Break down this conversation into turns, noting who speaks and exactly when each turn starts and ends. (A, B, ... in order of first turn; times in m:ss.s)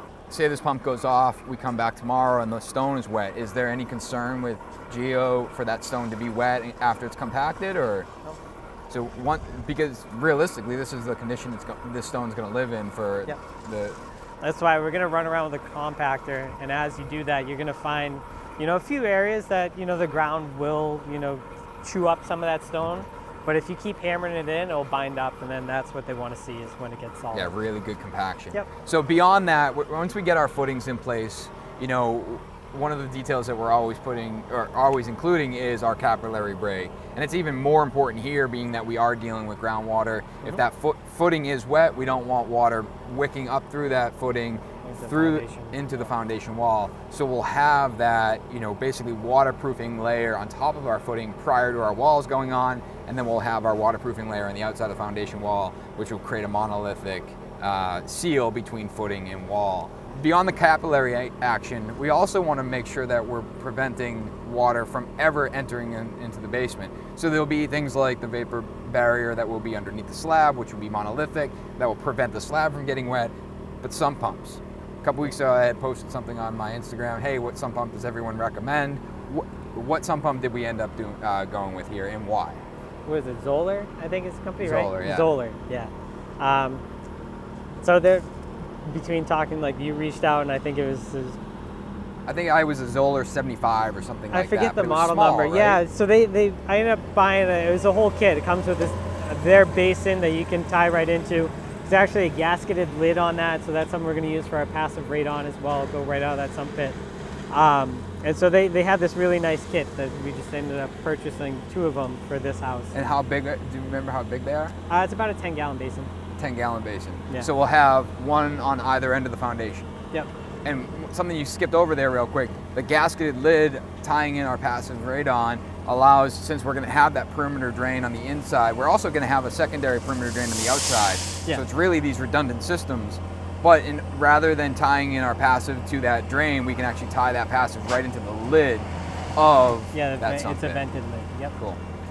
0:00.3-0:08.1 A
0:08.9-0:14.0 A
0:14.4-0:27.5 B
0:27.3-1:22.6 A
0:44.8-0:46.0 B
1:23.1-1:26.8 B
1:24.6-1:25.3 A
1:27.8-1:28.3 B
1:28.8-1:31.4 B
1:32.3-1:35.8 A
1:34.3-1:47.0 B
1:47.5-1:53.0 B
1:52.9-1:54.7 A
1:54.9-1:56.1 B
1:56.4-1:59.9 A
2:00.6-2:20.8 A
2:19.9-2:21.5 B